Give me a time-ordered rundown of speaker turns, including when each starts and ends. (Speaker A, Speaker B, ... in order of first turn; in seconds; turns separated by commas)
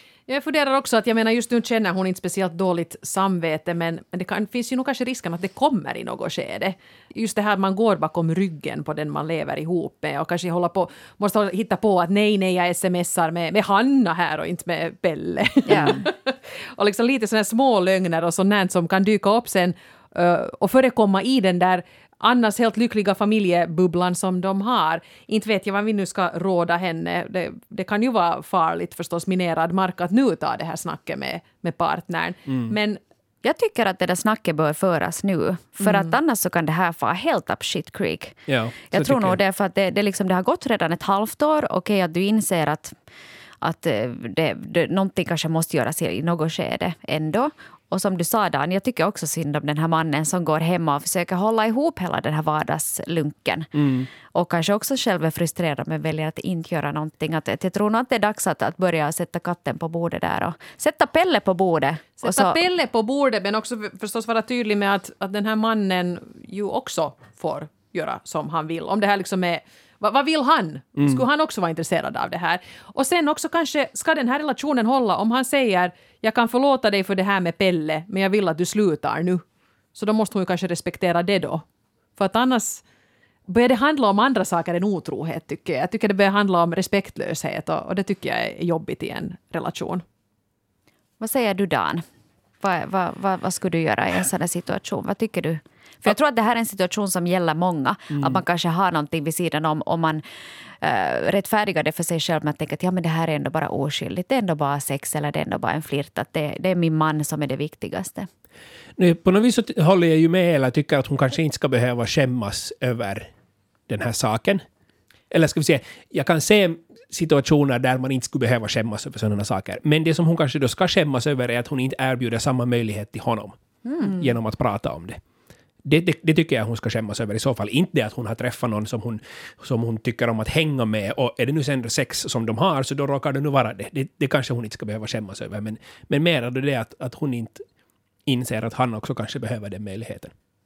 Speaker A: 0.3-33.0, Speaker B: 15.7-16.0, Speaker C: 32.5-32.8, Speaker B: 33.4-43.0, Speaker C: 38.5-39.4, Speaker B: 43.6-53.7, Speaker C: 53.8-54.1, Speaker B: 54.3-62.6, Speaker A: 62.2-79.4, Speaker C: 71.0-71.2, Speaker A: 80.0-81.6, Speaker A: 82.2-82.8, Speaker A: 83.5-90.0, Speaker B: 91.2-92.0, Speaker B: 92.6-100.2, Speaker B: 100.8-108.3, Speaker C: 109.0-113.3, Speaker C: 113.9-114.6, Speaker C: 115.3-125.2, Speaker B: 123.9-124.1, Speaker C: 125.8-137.6, Speaker C: 138.3-140.3